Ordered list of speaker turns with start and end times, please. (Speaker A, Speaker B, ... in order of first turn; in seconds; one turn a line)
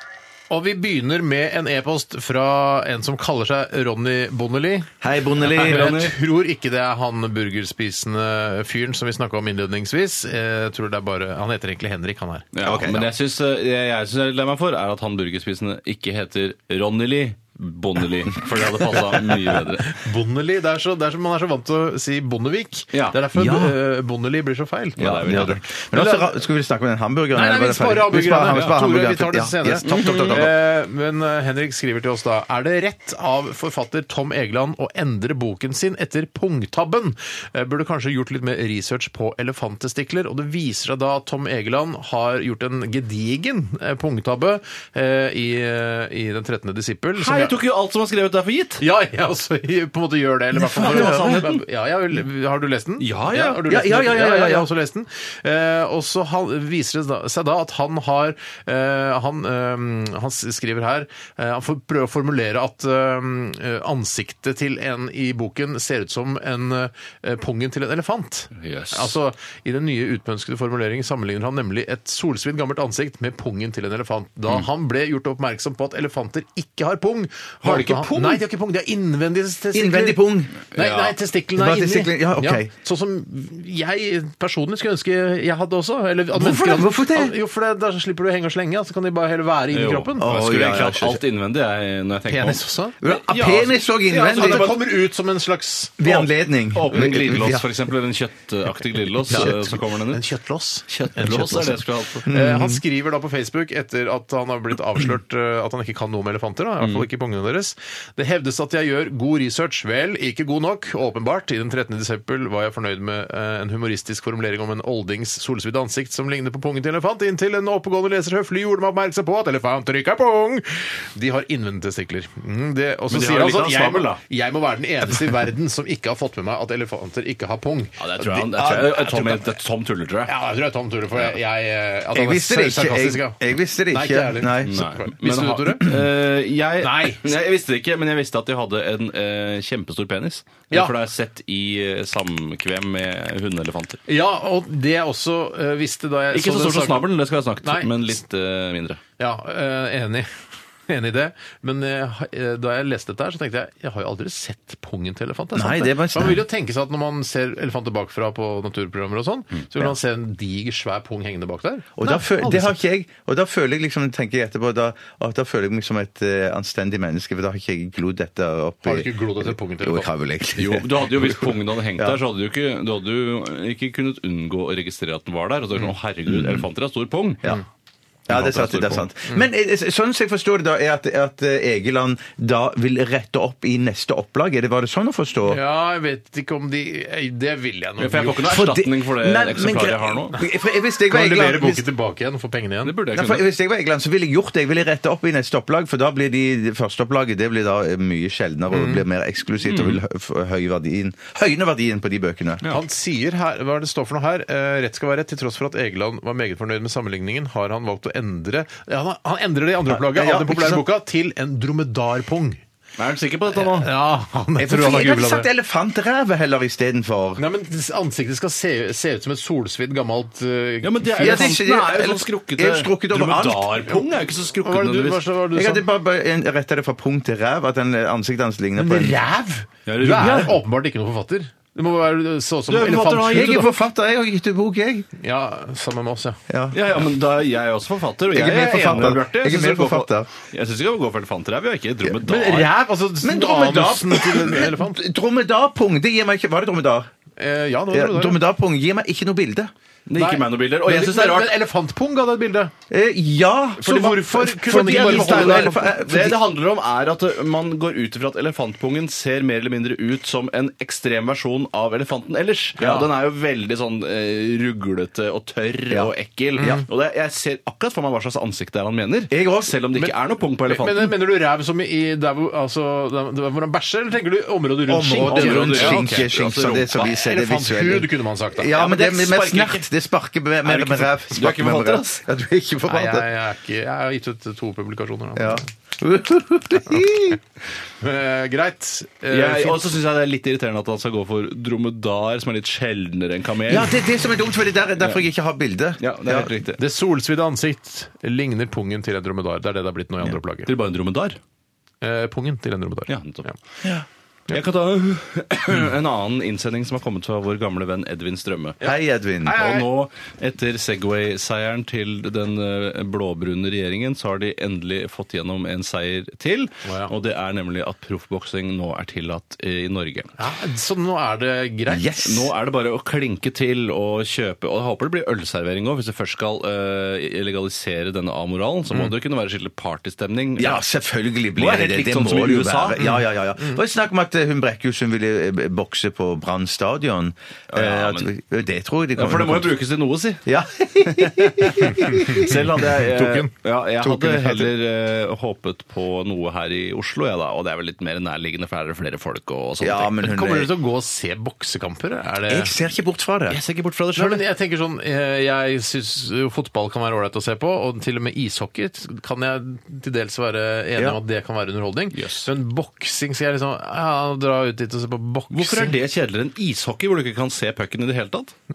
Speaker A: 0.5-4.9
Speaker B: 5.0-6.0
Speaker C: 5.5-6.1
Speaker A: 5.5-12.5
Speaker C: 12.5-20.0
Speaker B: 12.6-13.1
Speaker A: 18.9-26.3
Speaker C: 22.9-23.2
Speaker B: 23.3-23.7
Speaker C: 25.0-25.6
Speaker B: 25.0-30.5
Speaker A: 27.3-47.6
Speaker C: 28.5-28.8
Speaker C: 29.8-30.5
Speaker C: 47.2-48.8
Speaker A: 48.8-80.2
Speaker B: 50.5-51.5
Speaker C: 50.8-51.6
Speaker C: 53.0-53.6
Speaker B: 53.6-54.7
Speaker C: 68.6-69.1
Speaker C: 77.6-78.4
Speaker B: 79.7-80.5
Speaker A: 80.7-90.3
Speaker C: 80.7-81.2
Speaker B: 81.6-82.7
Speaker B: 86.3-87.3
Speaker C: 89.7-94.9
Speaker B: 90.2-91.2
Speaker A: 92.3-93.0
Speaker B: 93.0-94.7
Speaker A: 94.1-96.1
Speaker B: 96.0-97.6
Speaker C: 96.0-100.2
Speaker B: 99.3-99.6
Speaker A: 99.3-128.4
Speaker C: 100.9-102.3
Speaker B: 102.3-102.8
Speaker C: 106.8-107.1
Speaker C: 123.1-124.2
Speaker C: 128.0-130.3
Speaker B: 128.3-129.4
Speaker A: 130.3-133.4
Speaker B: 132.1-134.8
Speaker A: 133.9-135.9
Speaker C: 134.7-144.0
Speaker A: 136.8-137.3
Speaker A: 144.1-147.1
Speaker C: 146.3-149.0
Speaker A: 147.6-147.9
Speaker A: 149.2-150.3
Speaker A: 150.9-162.8
Speaker B: 155.5-156.4
Speaker B: 162.0-172.2
Speaker A: 168.8-170.1
Speaker C: 170.6-177.5
Speaker B: 176.3-176.6
Speaker B: 178.3-185.6
Speaker C: 178.3-179.1
Speaker A: 185.5-188.5
Speaker C: 188.0-190.4
Speaker B: 188.4-191.9
Speaker A: 191.1-192.9
Speaker C: 192.8-193.4
Speaker B: 193.1-202.6
Speaker A: 198.7-199.0
Speaker C: 199.6-200.0
Speaker A: 202.7-212.6
Speaker B: 209.9-210.9
Speaker C: 213.0-213.9
Speaker A: 213.5-215.5
Speaker B: 214.6-217.4
Speaker A: 217.4-221.6
Speaker C: 220.8-225.2
Speaker B: 221.2-224.0
Speaker A: 224.6-225.8
Speaker B: 225.5-229.2
Speaker A: 228.8-233.7
Speaker C: 229.9-230.6
Speaker B: 230.2-230.5
Speaker C: 232.7-233.7
Speaker B: 233.2-235.1
Speaker A: 235.2-236.4
Speaker B: 236.5-236.8
Speaker C: 236.7-242.7
Speaker B: 238.3-240.3
Speaker A: 242.2-245.0
Speaker B: 243.2-247.1
Speaker A: 247.4-248.4
Speaker B: 247.9-249.7
Speaker C: 250.1-251.6
Speaker A: 250.2-252.7
Speaker B: 252.9-256.4
Speaker A: 253.8-255.9
Speaker C: 254.7-271.1
Speaker B: 262.8-263.1
Speaker B: 265.9-266.8
Speaker A: 266.6-266.9
Speaker B: 269.3-269.8
Speaker A: 270.7-276.3
Speaker B: 274.9-283.3
Speaker C: 275.2-277.0
Speaker A: 276.9-278.8
Speaker C: 278.7-279.9
Speaker C: 280.7-282.2
Speaker A: 282.9-285.7
Speaker B: 285.4-287.4
Speaker A: 288.0-289.9
Speaker C: 289.3-294.0
Speaker B: 293.7-296.5
Speaker C: 296.0-296.8
Speaker A: 296.8-300.7
Speaker C: 300.7-301.4
Speaker A: 302.0-303.6
Speaker C: 303.1-303.5
Speaker C: 304.5-308.9
Speaker B: 308.8-309.7
Speaker C: 309.4-320.3
Speaker A: 309.5-309.8
Speaker A: 316.9-317.1
Speaker A: 320.4-322.2
Speaker B: 321.9-322.5
Speaker C: 322.2-330.8
Speaker B: 330.6-339.7
Speaker C: 331.6-333.0
Speaker A: 333.0-333.8
Speaker C: 337.7-338.3
Speaker C: 339.2-340.5
Speaker B: 340.5-342.5
Speaker C: 341.0-350.1
Speaker A: 341.8-343.5
Speaker B: 344.0-344.7
Speaker B: 349.8-350.7
Speaker A: 350.2-352.7
Speaker B: 352.5-353.6
Speaker C: 353.5-354.4
Speaker A: 354.1-365.9
Speaker C: 362.1-362.5
Speaker C: 365.5-368.5